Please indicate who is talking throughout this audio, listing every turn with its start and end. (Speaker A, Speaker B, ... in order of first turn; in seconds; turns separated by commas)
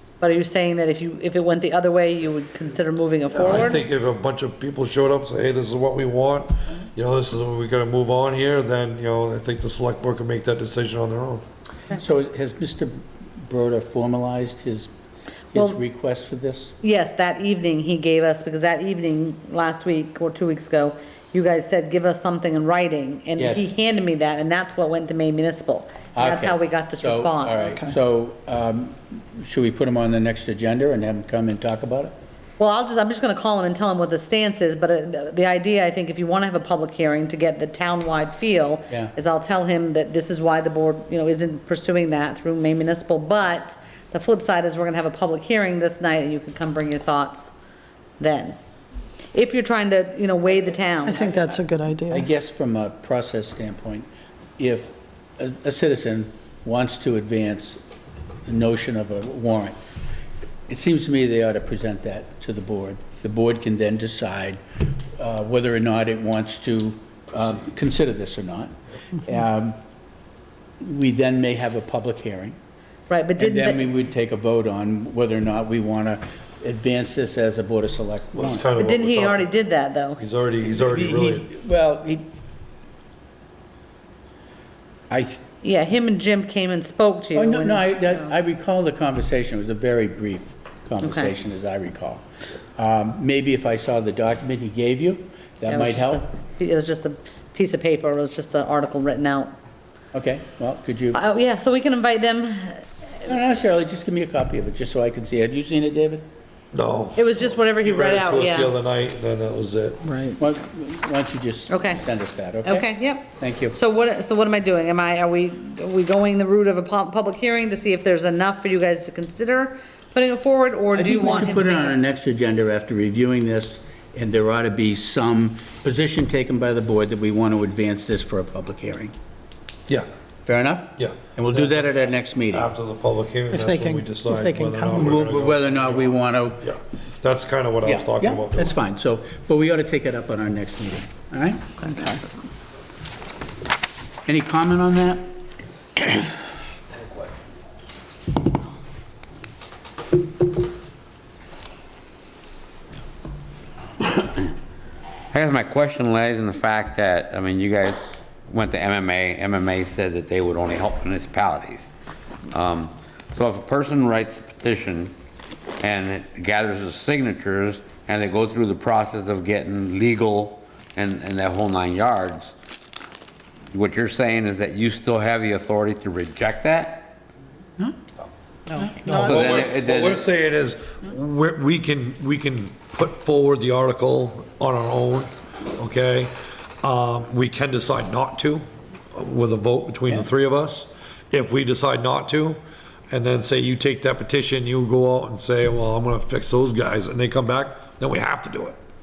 Speaker A: 0.2-3.8, Speaker B: 3.3-11.4, Speaker C: 11.9-14.9, Speaker C: 15.5-16.7, Speaker A: 16.8-27.8, Speaker C: 23.4-23.6, Speaker C: 26.1-32.1, Speaker D: 27.6-27.9, Speaker A: 32.6-47.5, Speaker A: 48.2-48.6, Speaker A: 49.3-51.6, Speaker D: 51.1-52.3, Speaker C: 52.1-54.1, Speaker C: 54.6-57.8, Speaker C: 58.5-59.8, Speaker C: 60.7-64.6, Speaker C: 65.2-69.8, Speaker C: 70.8-72.6, Speaker A: 73.1-73.9, Speaker C: 73.4-78.6, Speaker B: 78.3-79.5, Speaker A: 78.8-80.2, Speaker B: 80.2-81.5, Speaker C: 80.7-82.2, Speaker C: 85.1-85.4, Speaker A: 85.6-88.3, Speaker C: 87.3-92.2, Speaker A: 91.0-91.3, Speaker C: 92.8-96.2, Speaker A: 95.7-99.5, Speaker C: 100.1-101.2, Speaker A: 101.1-102.8, Speaker C: 103.2-106.2, Speaker B: 106.7-110.0, Speaker A: 107.2-108.7, Speaker D: 110.0-110.3, Speaker C: 110.4-113.8, Speaker A: 111.7-112.0, Speaker A: 112.6-122.0, Speaker C: 120.9-129.1, Speaker C: 130.4-132.7, Speaker B: 131.0-131.9, Speaker B: 132.5-138.7, Speaker D: 133.5-135.1, Speaker C: 134.9-136.7, Speaker C: 137.8-142.2, Speaker D: 141.9-142.2, Speaker C: 144.2-145.3, Speaker E: 155.3-161.9, Speaker E: 162.5-165.1, Speaker E: 165.8-172.5, Speaker E: 173.7-177.2, Speaker D: 178.8-179.2, Speaker C: 178.8-179.2, Speaker B: 179.0-192.6, Speaker E: 179.2-180.2, Speaker B: 193.1-198.8